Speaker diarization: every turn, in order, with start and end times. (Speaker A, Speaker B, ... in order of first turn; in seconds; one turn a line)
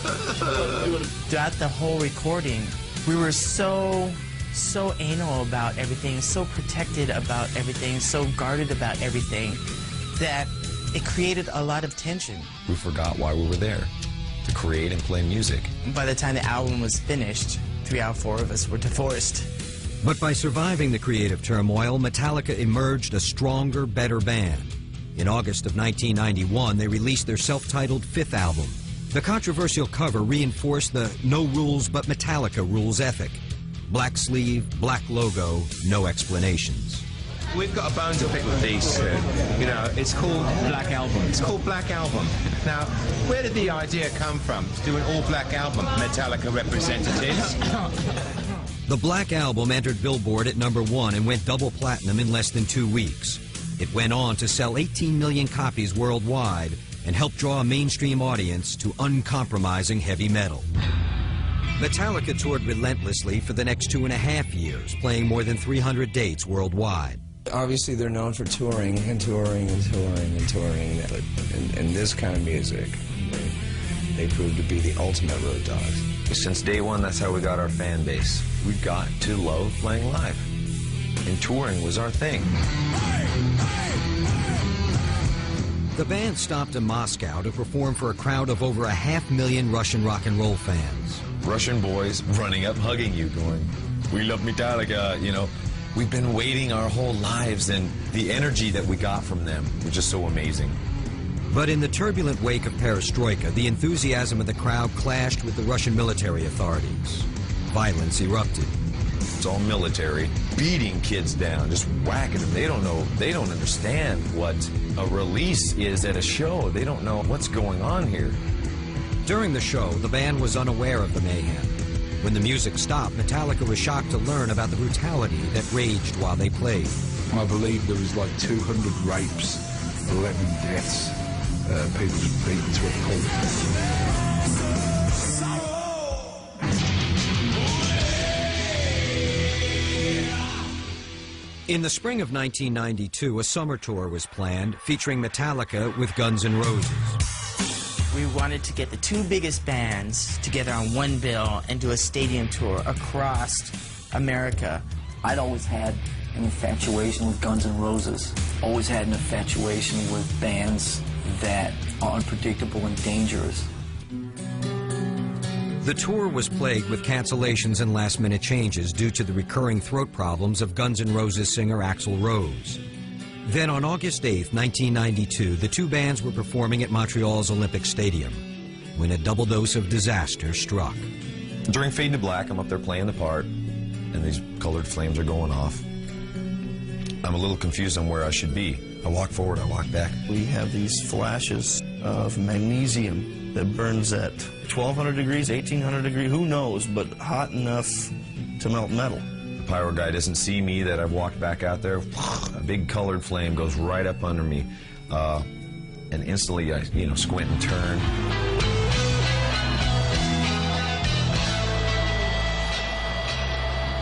Speaker A: 1.3-9.6
Speaker A: 10.1-12.5
Speaker B: 12.7-13.9
Speaker B: 14.4-15.7
Speaker A: 15.8-19.5
Speaker C: 20.0-37.0
Speaker D: 37.5-47.9
Speaker C: 48.9-60.7
Speaker C: 61.8-67.2
Speaker E: 67.5-73.5
Speaker E: 74.1-76.1
Speaker B: 76.3-80.5
Speaker B: 81.2-82.5
Speaker C: 85.9-91.2
Speaker B: 91.4-100.8
Speaker C: 101.5-108.7
Speaker B: 109.4-118.4
Speaker C: 119.2-126.9
Speaker F: 127.3-133.7
Speaker C: 141.7-147.2
Speaker A: 148.1-154.8
Speaker G: 155.2-163.7
Speaker C: 165.8-172.8
Speaker C: 173.4-178.4
Speaker C: 178.9-181.1
Speaker B: 181.7-183.5
Speaker B: 184.1-185.8
Speaker B: 187.2-190.2
Speaker H: 190.3-199.2
Speaker B: 199.6-205.5
Speaker B: 206.1-208.1